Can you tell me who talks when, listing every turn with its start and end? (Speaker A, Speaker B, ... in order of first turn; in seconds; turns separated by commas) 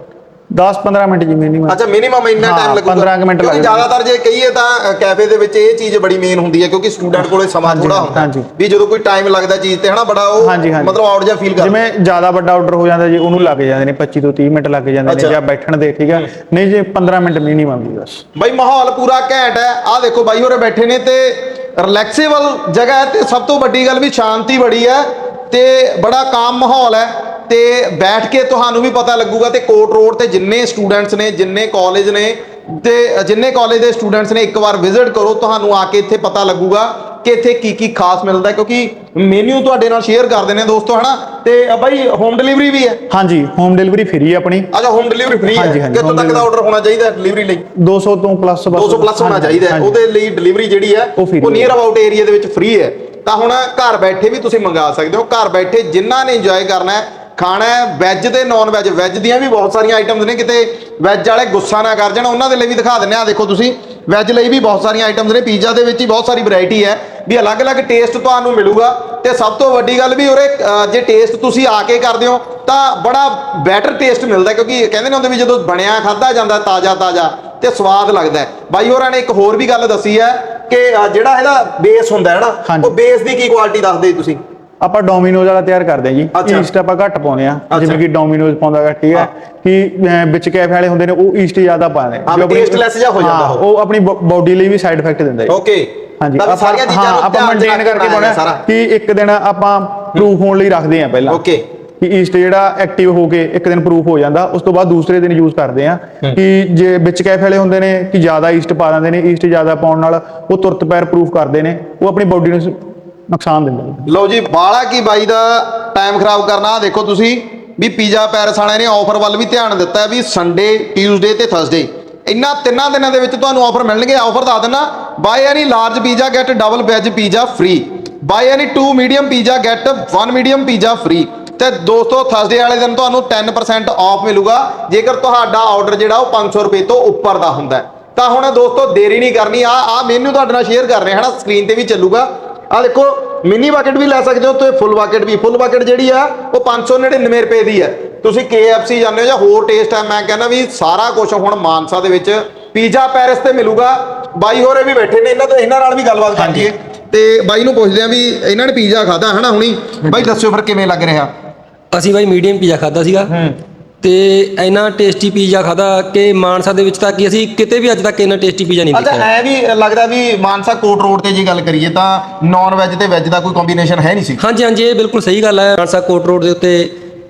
Speaker A: 0.6-1.8, Speaker B: 1.7-11.7, Speaker A: 2.4-3.9, Speaker A: 7.6-8.5, Speaker A: 10.4-11.0, Speaker A: 11.6-18.2, Speaker B: 15.1-15.4, Speaker B: 18.4-43.0, Speaker A: 43.1-44.7, Speaker B: 44.7-47.7, Speaker A: 45.5-46.5, Speaker A: 47.8-50.0, Speaker B: 48.7-84.4, Speaker A: 51.2-51.7, Speaker A: 82.7-82.9, Speaker A: 84.8-95.5, Speaker B: 86.3-86.7, Speaker B: 87.7-88.0, Speaker B: 92.3-93.6, Speaker B: 95.5-95.9, Speaker A: 96.2-101.4, Speaker B: 96.4-98.6, Speaker B: 101.3-101.6, Speaker A: 102.0-112.8, Speaker A: 113.3-114.1, Speaker B: 114.1-161.3, Speaker A: 156.4-156.7, Speaker C: 161.9-163.3, Speaker B: 163.3-163.6, Speaker C: 164.0-169.3, Speaker B: 168.9-174.4, Speaker C: 174.4-176.9